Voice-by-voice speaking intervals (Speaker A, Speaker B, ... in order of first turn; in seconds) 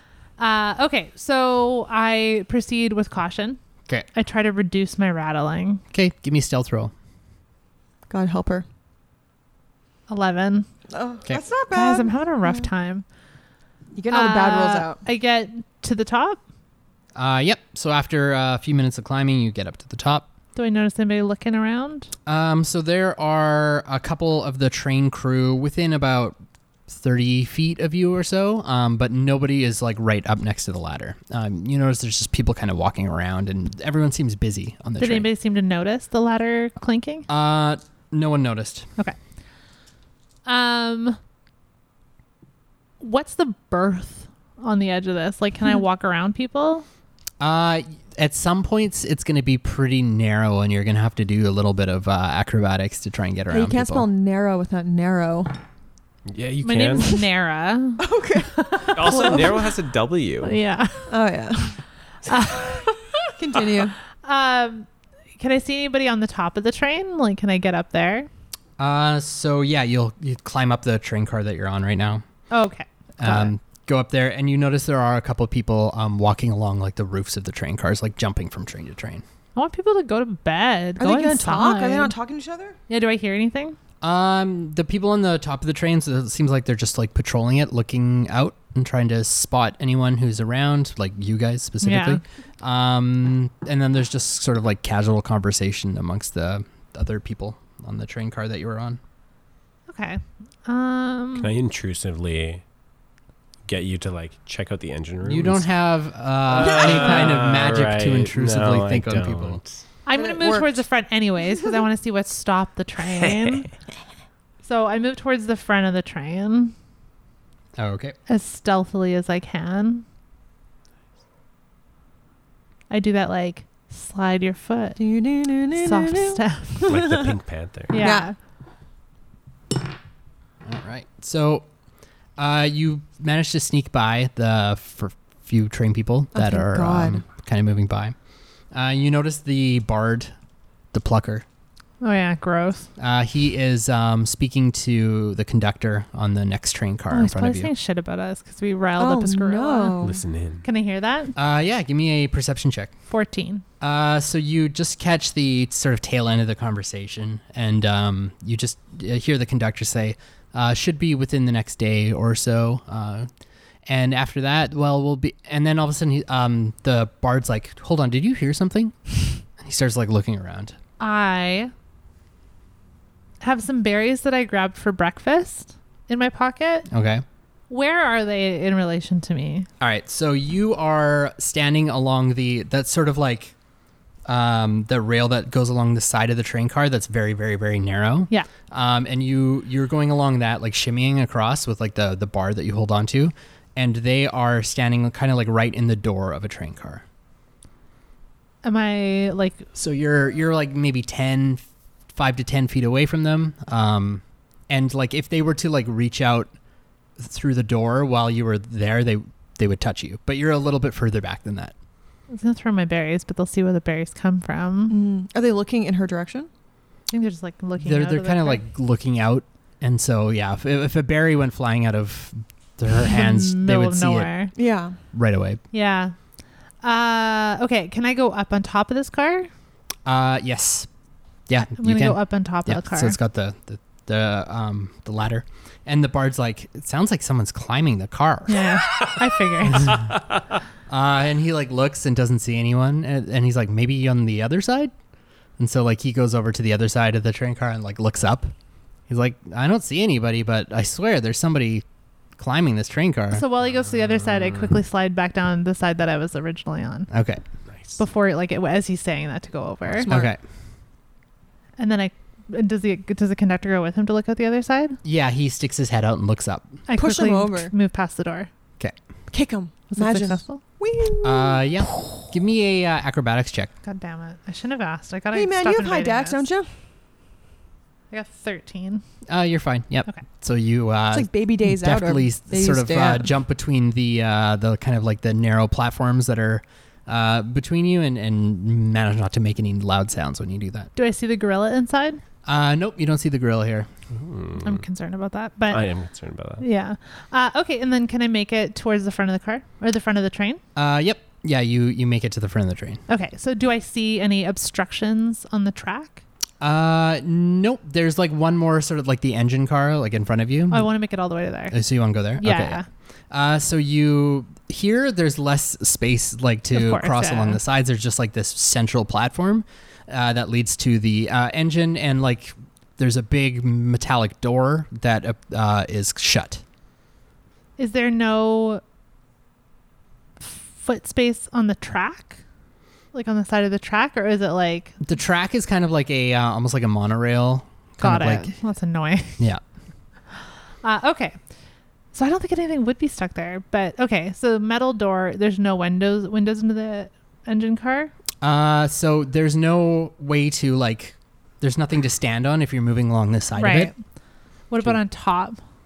Speaker A: 0.4-3.6, 4.1-5.8, 10.1-10.7, 11.7-13.1, 14.1-16.4, 20.6-22.1, 35.0-37.3, 40.5-41.2, 43.0-46.9, 56.6-59.6, 60.4-61.1, 62.3-63.3, 64.2-68.3, 72.5-73.5, 79.5-82.1, 82.9-83.8, 91.8-92.2, 99.9-101.5, 110.0-113.7, 114.6-116.8, 118.3-120.0, 122.9-125.0, 125.8-127.0, 127.9-128.4, 142.0-142.9, 147.1-150.0, 150.6-151.3, 153.1-153.6, 171.0-171.7, 173.4-176.9, 177.7-179.7, 198.6-199.7, 212.3-215.0, 217.1-218.6, 223.1-224.5, 225.7-226.2, 226.8-229.5, 231.8-233.2, 238.5-240.0, 253.3-257.1, 258.0-260.1, 261.8-265.0, 266.9-268.5, 269.9-270.6, 273.8-276.4, 278.1-279.0, 291.0-292.2, 294.6-295.9, 296.6-300.6, 303.1-306.2, 310.7-311.8, 312.4-312.9, 316.7-317.6, 327.8-328.8, 330.4-332.4, 333.1-335.0, 338.0-339.4, 340.4-341.4, 342.1-348.1, 353.6-353.9, 354.7-355.6
Speaker B: 5.9-6.9, 17.1-20.3, 22.3-26.4, 26.9-35.3, 37.3-38.9, 47.4-54.1, 68.8-72.2, 73.2-79.2, 84.0-99.0, 105.2-109.6, 117.8-118.2, 130.6-131.7, 132.4-138.2, 138.7-140.3, 140.9-141.4, 143.0-147.7, 151.4-152.9, 153.8-163.3, 163.9-170.8, 176.9-177.2, 179.8-183.5, 184.3-197.0, 199.8-206.5, 207.2-211.7, 217.8-224.3, 225.1-225.6, 230.1-230.9, 231.5-238.8, 240.9-244.9, 245.6-248.5, 249.1-251.8, 252.4-253.4, 257.1-257.4, 260.1-260.4, 265.0-266.8, 271.2-273.7, 279.3-290.9, 292.5-293.9, 300.8-303.0, 306.6-310.9, 311.7-326.6, 335.0-338.5, 348.4-353.9
Speaker C: 8.1-8.7, 10.9-12.7, 13.9-15.0, 53.5-55.5, 58.0-59.7, 61.1-61.8, 63.4-64.0, 81.0-82.8, 106.6-107.4, 110.1-110.8, 125.0-127.3, 127.9-128.3, 136.3-137.2, 149.0-150.2, 214.9-216.5, 224.6-225.0, 260.1-260.3, 267.0-267.7, 269.3-271.7, 275.3-276.7, 281.1-283.3
Speaker D: 56.3-57.1, 59.0-60.6, 101.4-102.6, 103.7-105.7, 106.5-109.8, 113.2-113.6, 126.9-128.1, 150.0-150.7, 239.9-240.2, 254.2-254.7, 257.7-258.0, 294.1-294.9, 295.7-296.6